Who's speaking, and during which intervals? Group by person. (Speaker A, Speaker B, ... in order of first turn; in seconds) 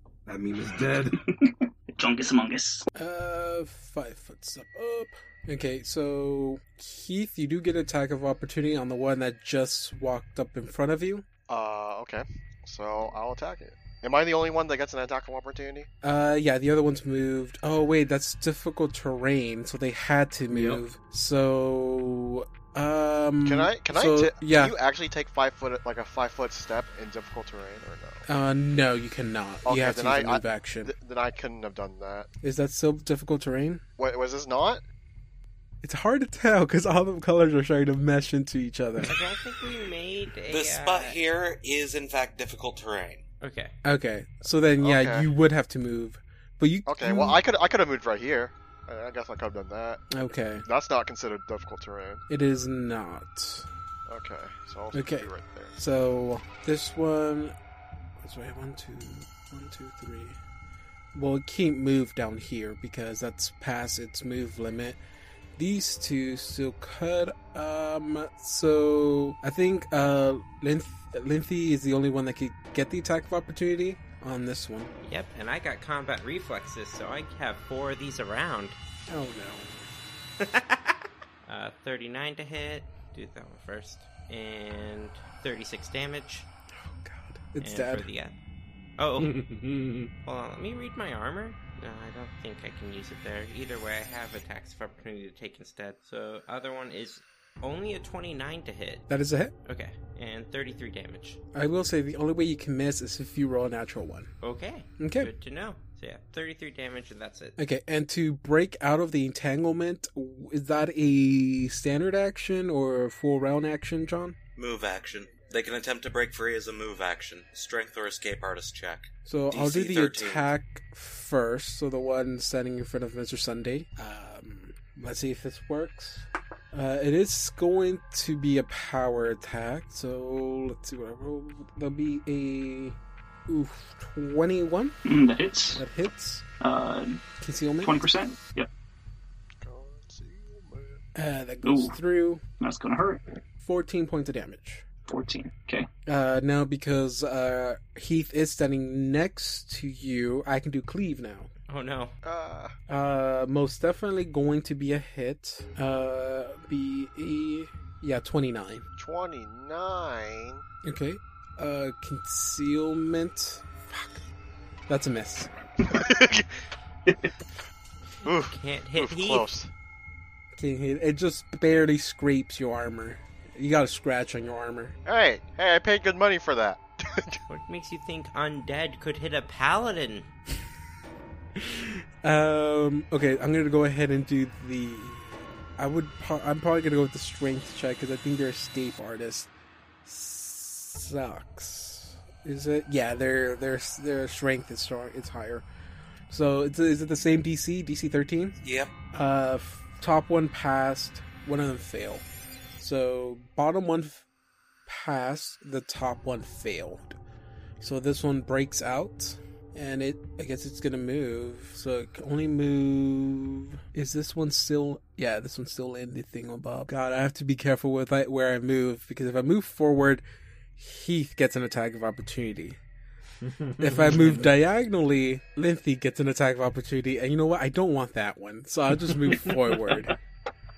Speaker A: 0.3-1.2, 20.5-20.8, 89.2-90.1, 223.4-224.5
Speaker B: 1.1-2.9, 135.1-135.8, 136.6-137.2, 137.8-138.7, 141.6-142.0, 142.6-143.2, 145.1-145.9
Speaker C: 3.0-11.2, 16.0-24.7, 28.3-30.9, 32.4-33.8, 35.8-39.1, 43.8-47.4, 50.1-50.6, 52.3-53.7, 54.9-57.5, 58.2-60.4, 61.1-65.0, 65.6-74.9, 79.1-79.9, 86.8-88.1, 99.1-99.5, 101.5-104.3, 105.0-105.3, 107.6-114.4, 119.3-133.0, 133.5-135.0, 135.8-136.4, 137.4-138.0, 141.2-142.4, 143.6-144.8, 146.1-151.5, 152.9-158.8, 160.8-164.2, 164.9-165.5, 170.6-174.9, 181.6-189.5, 190.1-195.7, 196.3-198.6, 199.1-202.2, 202.8-204.2, 204.9-207.2, 207.8-220.2, 220.8-222.8, 223.8-230.2
Speaker D: 11.5-15.9, 23.4-28.2, 29.6-32.3, 34.0-34.8, 44.8-45.2, 46.9-50.0, 50.7-52.2, 54.1-55.8, 139.6-141.1, 152.2-152.7, 159.0-160.6, 165.8-166.5, 168.2-169.7, 175.1-177.4
Speaker E: 39.0-41.2, 43.4-43.8, 75.0-78.8, 80.4-86.5, 87.6-88.4, 89.0-89.3, 90.2-99.0, 99.7-101.4, 104.4-107.6, 151.7-152.2, 168.3-169.5, 177.5-180.3
Speaker F: 40.5-43.2, 114.6-120.5, 198.6-198.9